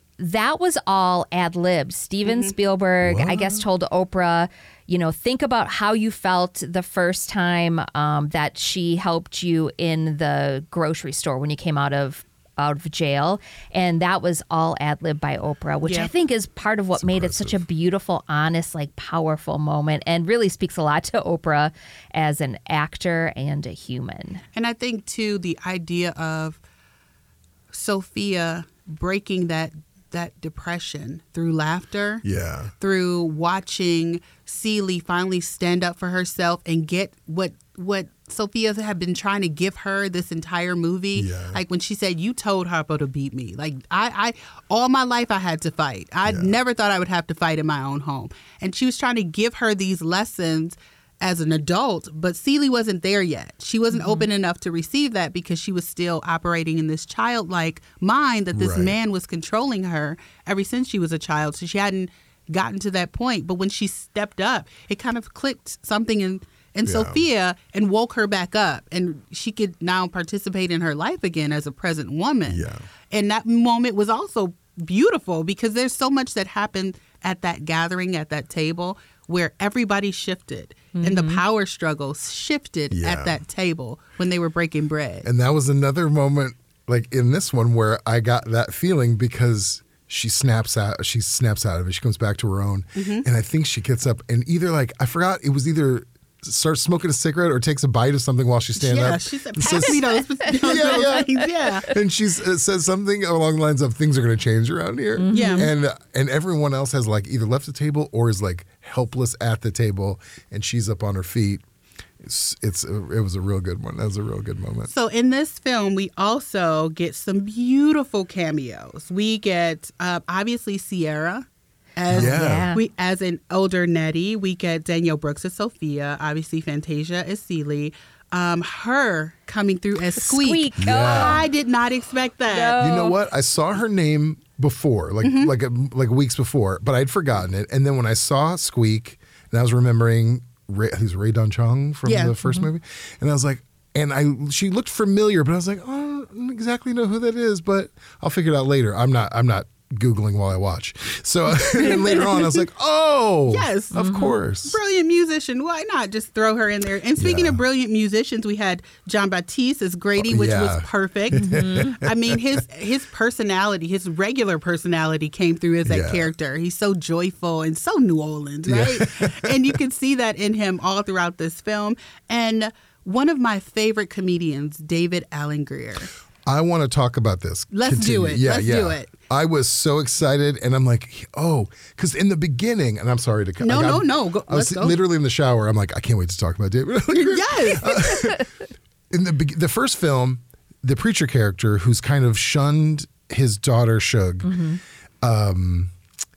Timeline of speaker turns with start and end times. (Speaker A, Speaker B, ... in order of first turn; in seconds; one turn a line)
Speaker A: 0.2-24.4
Speaker B: 2.2-2.5
Speaker C: 3.0-3.7
Speaker B: 15.8-16.1
Speaker C: 17.0-17.6
Speaker B: 24.5-26.6
Speaker B: 27.7-32.2
Speaker C: 32.2-32.7
Speaker B: 32.8-85.3
Speaker C: 41.1-41.6
Speaker C: 46.3-46.6
Speaker A: 53.9-54.3
Speaker C: 58.5-59.0
Speaker C: 66.9-67.2
Speaker C: 72.5-72.9
Speaker A: 81.0-81.4
Speaker C: 82.9-83.4
Speaker C: 85.2-101.3
Speaker B: 93.0-93.2
Speaker B: 98.8-101.9
Speaker A: 100.7-101.5
Speaker C: 101.8-111.6
Speaker A: 105.2-105.7
Speaker B: 105.3-105.7
Speaker C: 112.2-114.9
Speaker B: 114.9-132.8
Speaker C: 122.1-122.7
Speaker A: 122.1-122.8
Speaker A: 130.2-131.4
Speaker C: 130.8-131.5
Speaker A: 132.5-133.2
Speaker C: 132.8-154.8
Speaker B: 135.2-135.5
Speaker B: 142.1-142.4
Speaker B: 151.7-152.6
Speaker B: 153.5-154.0
Speaker A: 153.9-154.4
Speaker B: 154.7-176.1
Speaker C: 157.2-157.6
Speaker C: 160.2-162.4
Speaker A: 161.4-161.9
Speaker C: 165.9-166.3
Speaker C: 168.7-169.6
Speaker C: 176.5-188.5
Speaker B: 177.7-179.1
Speaker B: 183.6-185.0
Speaker B: 187.2-188.1
Speaker C: 189.1-194.6
Speaker A: 194.4-194.8
Speaker C: 195.2-195.9